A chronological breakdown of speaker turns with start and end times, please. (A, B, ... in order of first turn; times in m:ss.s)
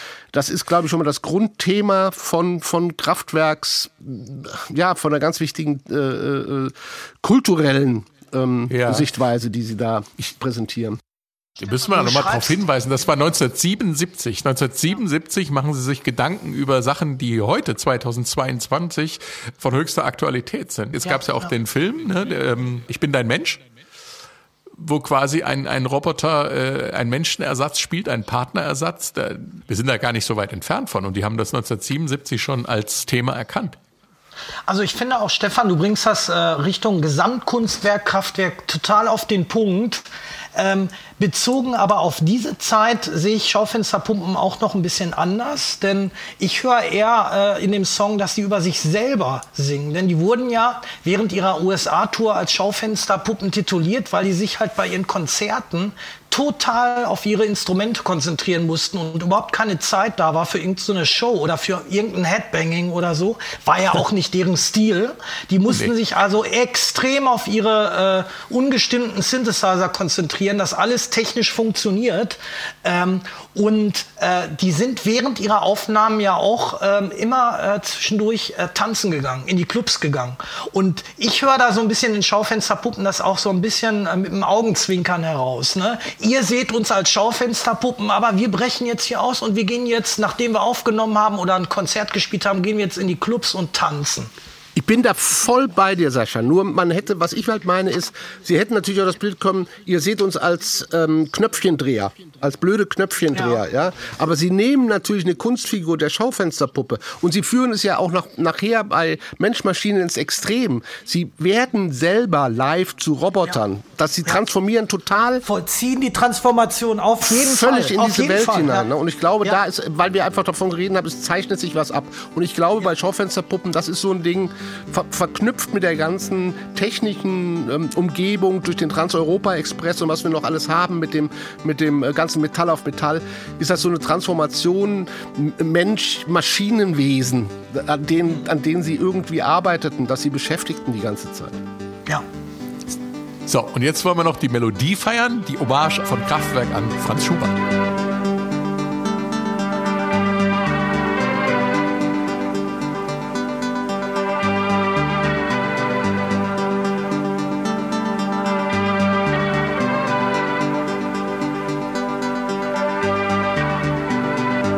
0:00.3-0:11.0 A
0:08.7-0:09.1 B
0:11.6-0:23.6 B
0:11.8-0:12.6 C
0:21.0-0:21.5 C
0:24.8-0:33.8 B
0:34.7-1:34.3 C
1:05.7-1:05.9 B
1:34.8-1:55.4 A
1:43.3-1:43.6 C
1:55.4-1:58.9 C
1:57.3-2:21.6 A
2:23.5-2:27.6 B